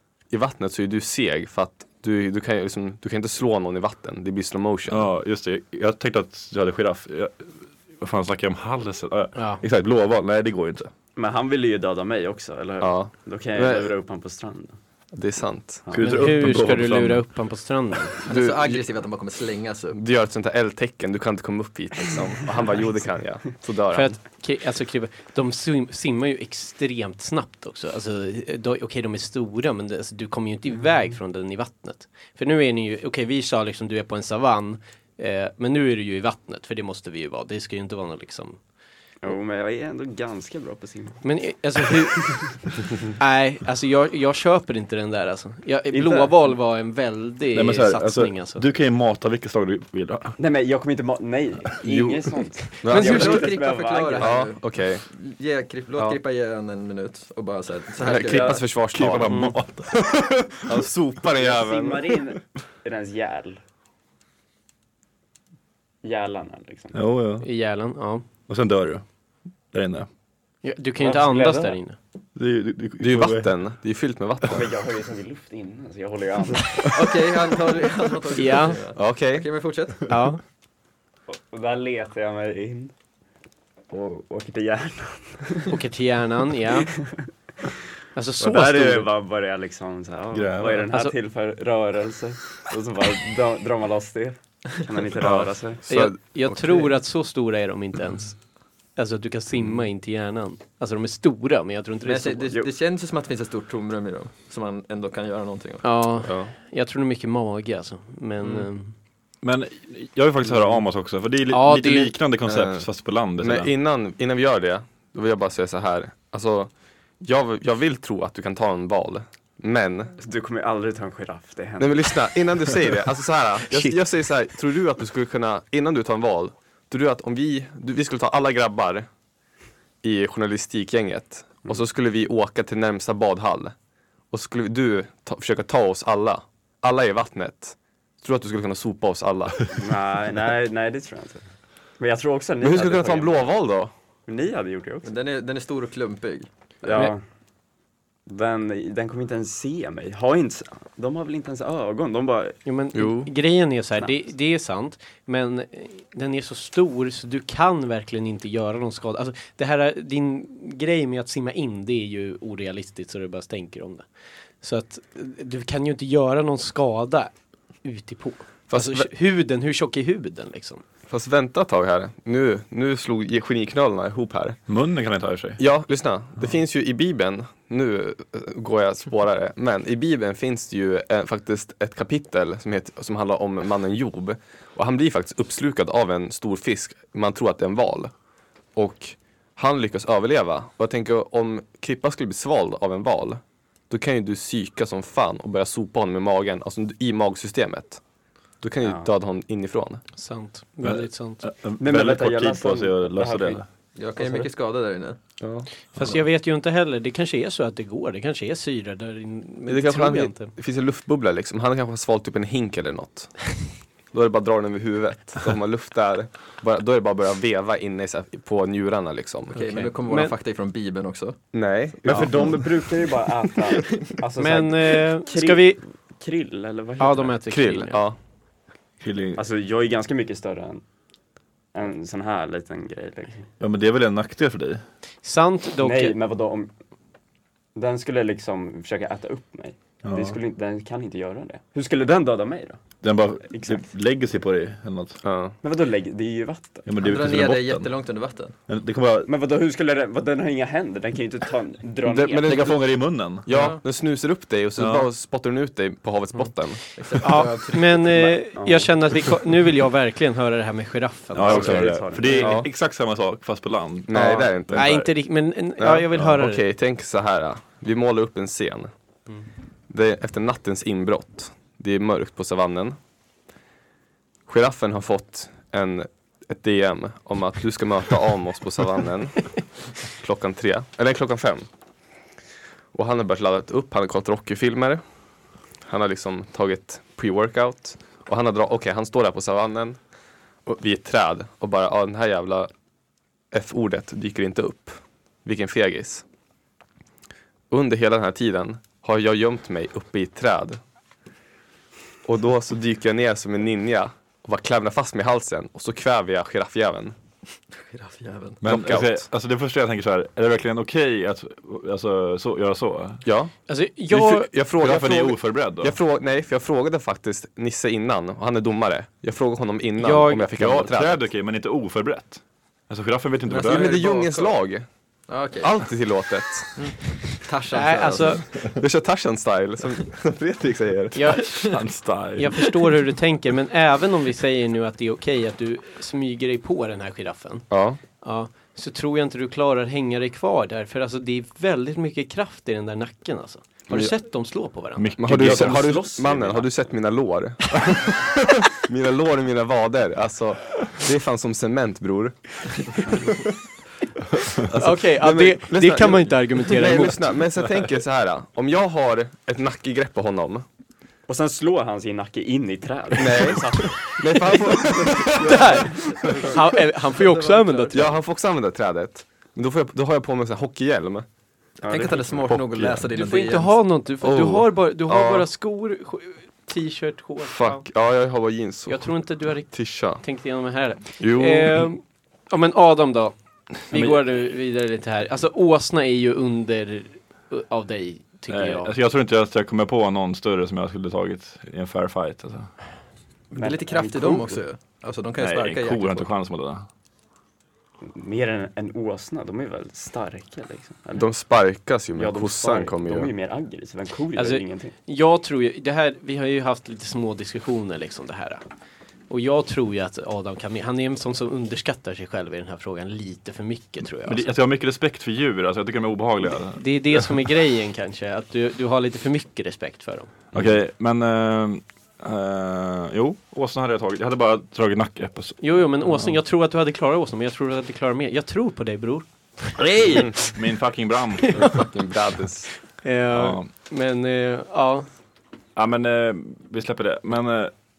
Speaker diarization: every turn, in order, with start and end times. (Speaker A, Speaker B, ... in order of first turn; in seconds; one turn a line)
Speaker A: 0.3-5.1
Speaker B: 4.9-10.9
Speaker C: 9.4-9.6
Speaker D: 11.2-14.8
Speaker A: 12.8-13.9
Speaker A: 15.1-15.9
Speaker B: 15.9-17.3
Speaker C: 16.0-18.2
Speaker E: 18.2-20.0
Speaker A: 18.3-18.8
Speaker A: 19.9-24.2
Speaker C: 23.9-38.6
Speaker D: 39.2-41.2
Speaker C: 41.2-42.5
Speaker C: 43.2-48.6
Speaker D: 45.9-46.3
Speaker B: 47.5-50.4
Speaker D: 50.4-54.5
Speaker A: 52.8-53.5
Speaker E: 52.9-58.6
Speaker A: 54.2-55.0
Speaker A: 58.0-59.5
Speaker D: 58.0-58.6
Speaker B: 58.9-60.9
Speaker C: 59.3-59.5
Speaker A: 60.7-62.0
Speaker D: 61.4-63.6
Speaker D: 66.0-67.0
Speaker B: 66.9-67.5
Speaker C: 67.4-68.2
Speaker B: 68.5-69.0
Speaker B: 69.7-70.1
Speaker C: 70.6-72.0
Speaker D: 71.0-71.8
Speaker B: 72.4-73.5
Speaker A: 73.0-74.7
Speaker D: 74.5-76.8
Speaker E: 76.9-80.0
Speaker C: 78.3-78.8
Speaker A: 78.9-79.5
Speaker C: 80.1-80.4
Speaker D: 81.3-82.9
Speaker D: 83.9-85.8
Speaker C: 85.7-86.9
Speaker D: 86.8-87.3
Speaker C: 88.2-89.1
Speaker D: 88.4-95.8
Speaker B: 90.3-90.9
Speaker A: 95.2-96.9
Speaker C: 95.9-98.4
Speaker C: 99.0-102.6
Speaker E: 102.0-105.9
Speaker C: 105.8-108.9
Speaker A: 106.2-106.5
Speaker B: 109.4-113.7
Speaker C: 111.5-112.2
Speaker A: 112.5-120.2
Speaker D: 120.2-122.2
Speaker A: 121.8-129.1
Speaker A: 130.0-133.8
Speaker A: 134.3-139.7
Speaker D: 139.7-141.5
Speaker D: 142.0-143.5
Speaker A: 142.6-143.9
Speaker D: 144.3-145.1
Speaker E: 145.0-146.5
Speaker D: 146.8-147.2
Speaker D: 148.3-152.6
Speaker C: 152.7-164.1
Speaker A: 152.9-153.3
Speaker C: 164.6-167.3
Speaker C: 167.8-170.8
Speaker A: 168.7-169.1
Speaker A: 171.1-174.6
Speaker B: 174.7-175.6
Speaker A: 175.6-188.1
Speaker A: 188.8-198.0
Speaker A: 198.6-200.0
Speaker D: 198.8-199.1
Speaker C: 200.2-201.4
Speaker B: 200.8-203.7
Speaker D: 201.8-203.6
Speaker E: 204.0-205.2
Speaker D: 204.1-204.5
Speaker A: 205.4-205.7
Speaker C: 205.9-210.5
Speaker A: 209.7-219.7
Speaker E: 219.5-221.6
Speaker C: 219.7-220.3
Speaker A: 221.5-222.6
Speaker D: 222.1-227.3
Speaker C: 224.4-225.8
Speaker C: 227.0-228.0
Speaker A: 227.5-228.2
Speaker B: 229.0-229.4
Speaker D: 229.3-230.8
Speaker D: 231.7-233.5
Speaker B: 233.6-234.8
Speaker C: 235.2-236.2
Speaker D: 235.8-236.7
Speaker D: 237.8-242.8
Speaker B: 240.1-240.4
Speaker B: 243.0-245.2
Speaker D: 243.5-243.9
Speaker A: 245.2-245.6
Speaker D: 245.6-246.8
Speaker B: 246.9-247.9
Speaker E: 247.0-248.6
Speaker B: 248.7-249.3
Speaker D: 249.3-252.7
Speaker A: 252.1-252.8
Speaker B: 252.3-253.7
Speaker A: 253.4-257.0
Speaker E: 253.5-253.8
Speaker B: 254.8-255.1
Speaker E: 257.0-258.3
Speaker C: 257.2-262.4
Speaker D: 258.5-258.9
Speaker B: 261.3-265.1
Speaker D: 261.5-262.6
Speaker A: 262.3-262.7
Speaker A: 264.1-264.9
Speaker C: 264.7-266.6
Speaker A: 265.8-268.9
Speaker A: 269.9-273.0
Speaker A: 274.5-281.7
Speaker A: 282.9-285.0
Speaker A: 285.8-290.0
Speaker A: 290.7-292.7
Speaker A: 293.5-296.2
Speaker A: 297.7-300.8
Speaker A: 302.2-307.2
Speaker E: 307.8-308.6
Speaker B: 308.6-313.2
Speaker A: 308.6-309.3
Speaker A: 313.2-313.5
Speaker C: 313.7-314.5
Speaker A: 314.1-321.3
Speaker B: 314.8-316.0
Speaker C: 320.0-320.5
Speaker B: 320.5-324.0
Speaker E: 323.5-324.6
Speaker A: 323.6-324.9
Speaker E: 325.3-325.8
Speaker A: 325.6-326.8
Speaker E: 326.8-328.6
Speaker C: 327.7-328.5
Speaker A: 328.6-331.5
Speaker C: 331.1-331.7
Speaker B: 331.5-333.1
Speaker C: 332.4-337.7
Speaker A: 337.7-338.0
Speaker C: 338.2-345.2
Speaker B: 345.0-346.0
Speaker A: 345.2-348.1
Speaker D: 345.3-346.7
Speaker A: 348.7-353.4
Speaker A: 354.5-360.6
Speaker C: 354.7-357.4
Speaker D: 361.3-364.1
Speaker A: 363.2-365.9
Speaker B: 365.1-365.5
Speaker C: 365.3-368.1
Speaker E: 365.9-368.2
Speaker A: 367.9-371.3
Speaker D: 371.8-372.6
Speaker E: 371.9-373.8
Speaker B: 372.5-373.1
Speaker C: 373.1-377.9
Speaker B: 374.2-374.6
Speaker A: 375.1-375.5
Speaker A: 377.4-380.2
Speaker C: 378.9-388.9
Speaker A: 381.2-381.9
Speaker B: 383.9-384.2
Speaker B: 388.5-392.7
Speaker E: 393.5-396.3
Speaker D: 393.6-394.6
Speaker B: 395.4-396.9
Speaker D: 398.0-401.3
Speaker A: 401.2-403.3
Speaker D: 402.2-404.9
Speaker C: 404.4-408.6
Speaker C: 409.3-414.5
Speaker B: 414.2-417.3
Speaker C: 416.8-420.3
Speaker B: 420.5-426.4
Speaker C: 425.6-430.4
Speaker B: 429.8-431.9
Speaker C: 431.4-431.8
Speaker A: 431.6-432.7
Speaker C: 432.9-435.1
Speaker B: 433.3-433.7
Speaker B: 435.8-437.7